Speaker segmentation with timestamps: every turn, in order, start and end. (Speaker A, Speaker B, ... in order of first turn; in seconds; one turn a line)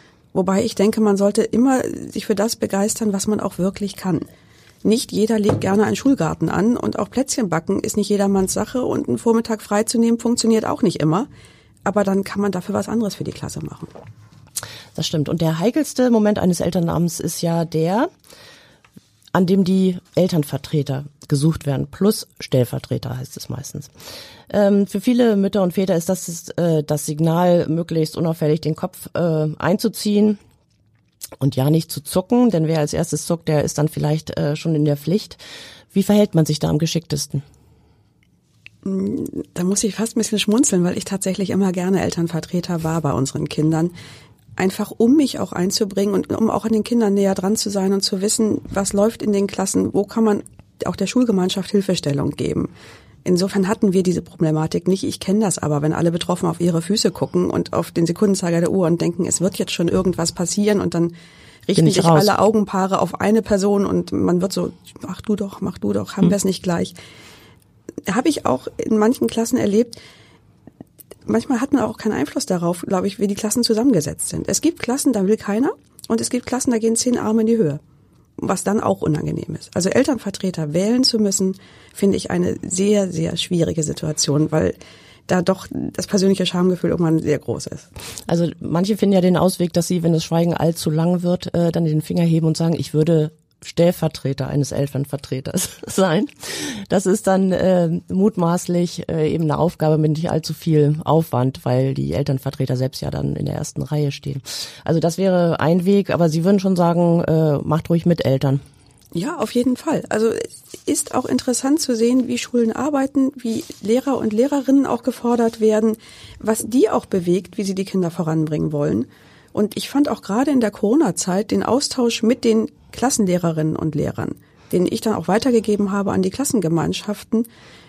Speaker A: 0.3-4.2
Speaker A: 4.8-11.3
Speaker A: 11.8-13.9
Speaker B: 14.9-18.1
Speaker B: 19.3-23.9
Speaker B: 24.5-30.4
Speaker B: 31.4-35.4
Speaker B: 35.9-37.4
Speaker A: 38.8-43.9
Speaker A: 44.6-52.7
Speaker A: 53.2-61.1
Speaker B: 61.7-62.3
Speaker A: 61.7-66.9
Speaker A: 68.1-70.0
Speaker A: 71.3-77.8
Speaker A: 78.4-84.8
Speaker A: 85.3-87.9
Speaker B: 88.2-108.6
Speaker A: 109.1-127.5